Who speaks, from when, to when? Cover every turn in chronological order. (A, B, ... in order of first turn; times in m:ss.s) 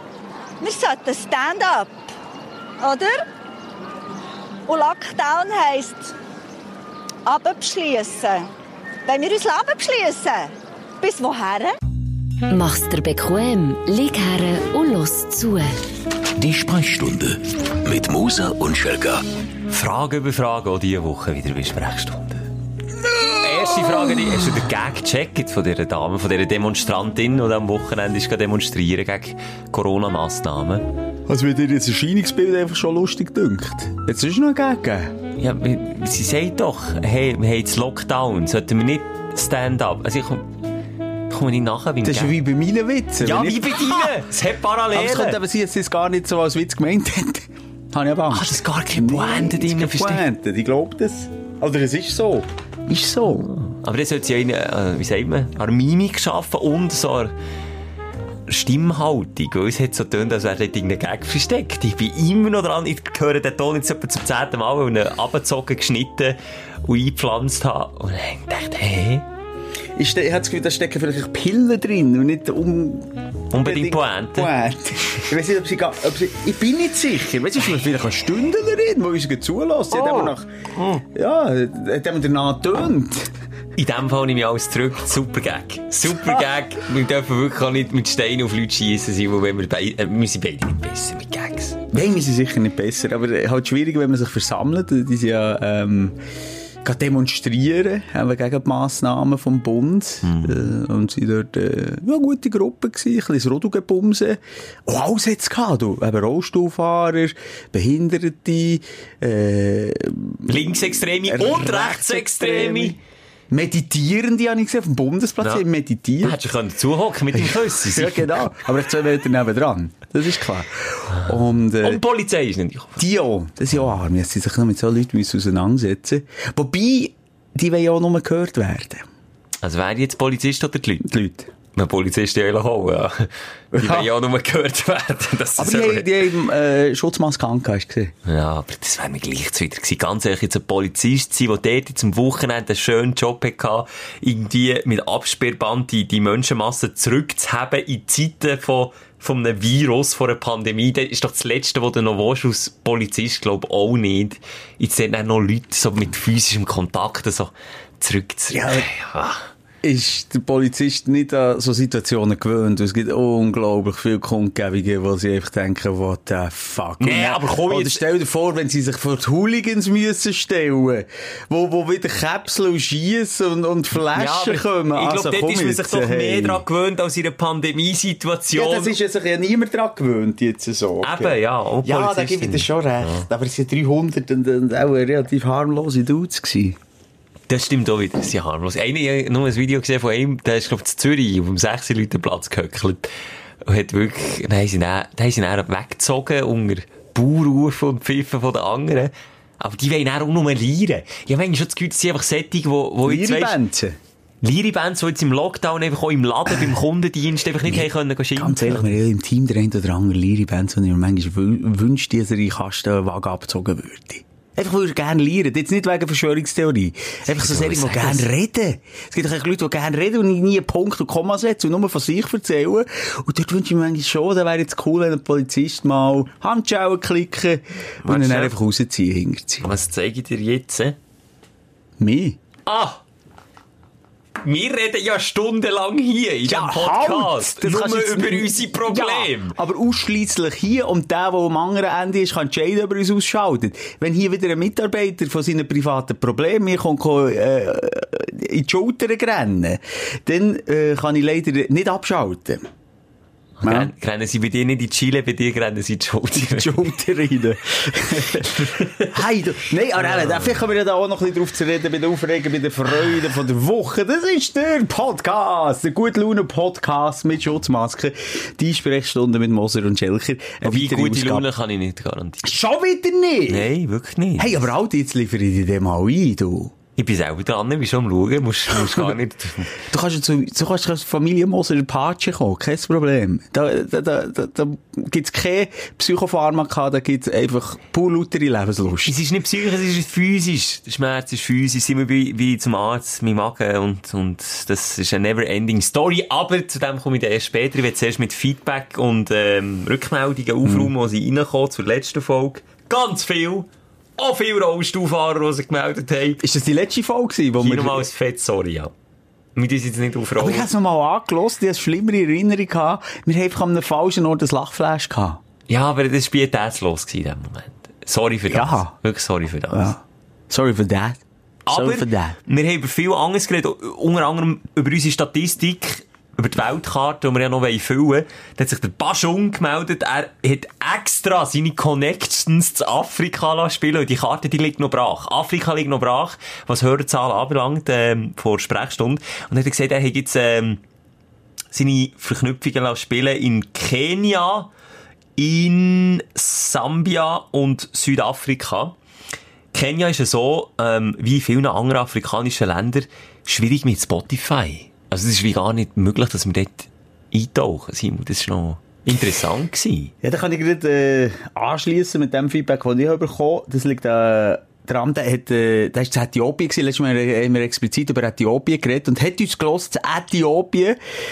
0:00.6-0:01.9 A
0:02.8-0:03.2 A
0:04.7-0:06.1 A
0:07.2-0:08.5 A
0:09.1-0:11.8 A
0:12.5-0:15.8 B
0:16.4-0:19.2 C
0:19.7-0:22.5 D
0:23.2-0:24.3 E
0:23.3-0:30.9 D
0:31.3-0:35.1 E
0:35.4-0:40.5 D
0:41.3-0:42.3 D
0:42.0-0:44.2 E
0:43.2-0:45.4 D
0:44.9-0:53.5 E
0:48.3-0:50.2 D
0:53.4-0:57.3 D
0:58.5-1:09.2 D
1:10.0-1:23.3 E
1:13.5-1:14.5 D
1:20.0-1:20.3 D
1:23.8-1:31.8 D
1:26.1-1:26.4 E
1:31.9-1:36.2 E
1:36.8-1:53.0 E
1:40.2-1:40.6 D
1:50.5-1:53.0 D
1:53.5-1:56.4 E
1:56.2-1:58.3 D
1:57.3-2:02.0 E
2:01.1-2:03.0 D
2:03.0-2:09.0 E
2:09.6-2:11.1 D
2:11.0-2:11.5 E
2:11.7-2:16.1 D
2:13.7-2:14.1 E
2:15.6-2:18.1 E
2:18.2-2:39.4 D
2:38.5-2:38.9 E
2:39.8-2:56.6 E
2:47.0-2:48.0 D
2:54.1-2:59.0 D
2:58.5-3:06.8 E
3:01.0-3:03.2 D
3:07.5-3:13.1 D
3:13.6-3:23.6 D
3:23.0-3:24.0 E
3:24.4-3:28.9 D
3:27.6-3:49.6 E
3:37.3-3:38.3 D
3:48.0-3:48.5 D
3:49.6-3:51.0 D
3:52.0-3:52.4 E
3:52.6-3:53.0 D
3:54.4-3:59.6 D
3:56.5-4:12.6 E
4:13.6-4:16.9 D
4:13.6-4:13.9 E
4:16.4-4:31.4 E
4:18.6-4:19.1 D
4:20.0-4:20.5 D
4:30.6-4:32.6 D
4:32.4-4:33.7 E
4:33.5-4:34.6 D
4:34.4-4:36.7 E
4:37.0-4:39.7 D
4:38.7-4:39.1 E
4:39.8-4:49.1 E
4:49.0-5:06.4 D
5:00.6-5:00.9 E
5:06.4-5:08.1 E
5:07.6-5:08.9 D
5:09.6-5:10.7 D
5:10.4-5:15.4 E
5:15.7-5:19.9 D
5:18.5-5:18.9 E
5:19.7-5:22.4 E
5:21.6-5:40.8 D
5:41.7-5:44.7 D
5:45.4-5:48.9 D
5:49.7-6:00.1 D
6:00.2-6:11.0 E